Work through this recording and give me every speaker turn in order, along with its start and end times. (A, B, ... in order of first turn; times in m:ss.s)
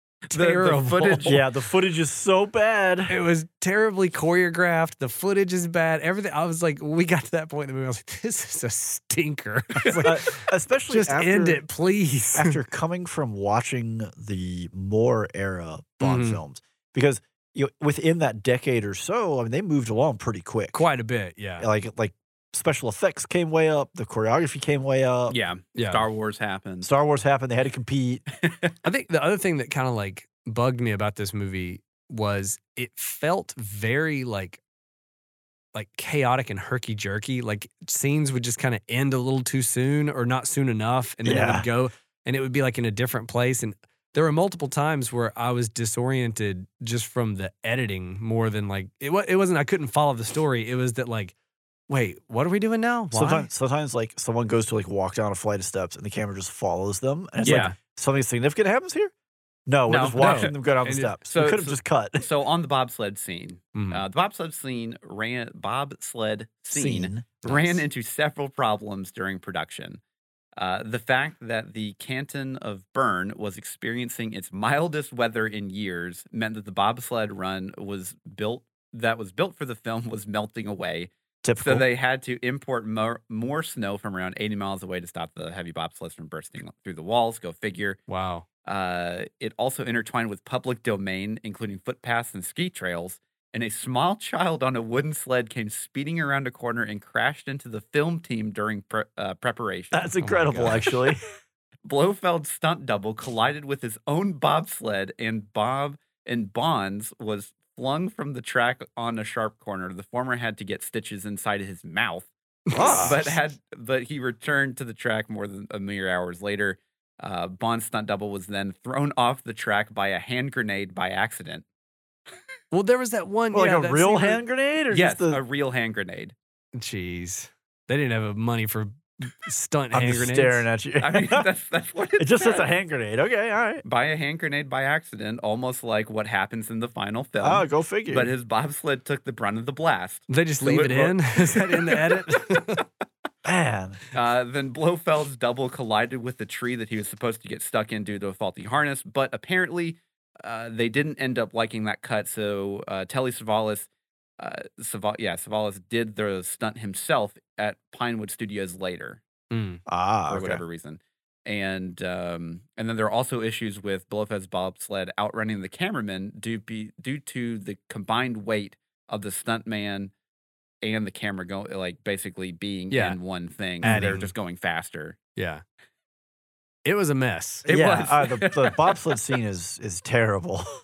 0:00.3-0:01.4 A
0:00.3-0:01.4 B
0:01.2-0:03.1 C
0:03.1-0:12.6 A
0:10.0-0:11.6 C
0:12.4-0:20.8 C
0:16.0-0:16.4 A
0:20.7-0:21.7 A
0:21.6-0:25.4 C
0:25.3-0:26.9 B
0:25.8-0:26.1 A
0:26.8-0:28.2 C
0:28.4-0:28.7 B
0:28.8-0:34.6 A
0:35.7-0:51.3 A
0:41.2-0:41.7 C
0:51.9-0:53.5 A
0:53.1-0:59.1 C
0:57.4-0:57.8 A
0:57.4-0:57.8 B
0:59.7-1:02.2 C
0:59.9-1:00.5 B
1:00.2-1:01.1 A
1:01.3-1:10.0 B
1:03.8-1:04.0 A
1:06.7-1:07.8 C
1:10.6-1:28.0 B
1:21.4-1:21.8 C
1:28.1-1:28.4 A
1:28.6-1:40.1 B
1:39.9-1:41.2 C
1:40.2-1:41.0 A
1:41.8-2:01.6 B
1:52.7-1:53.2 A
1:52.7-1:53.4 C
2:02.7-2:04.4 A
2:03.5-2:05.4 C
2:04.9-2:06.4 B
2:06.8-2:10.6 A
2:09.9-2:11.4 C
2:11.0-2:12.7 B
2:12.2-2:13.8 C
2:13.8-2:20.3 B
2:17.4-2:18.3 C
2:20.3-2:22.9 A
2:20.6-2:21.2 C
2:23.4-2:24.0 C
2:24.1-2:39.2 B
2:39.5-2:39.8 A
2:39.9-2:40.6 C
2:40.3-2:50.1 B
2:50.8-2:55.2 B
2:52.9-2:53.2 A
2:53.8-2:54.3 A
2:53.8-2:54.2 C
2:55.4-2:55.6 A
2:56.8-2:57.7 A
2:57.7-2:59.0 B
2:57.7-3:00.7 C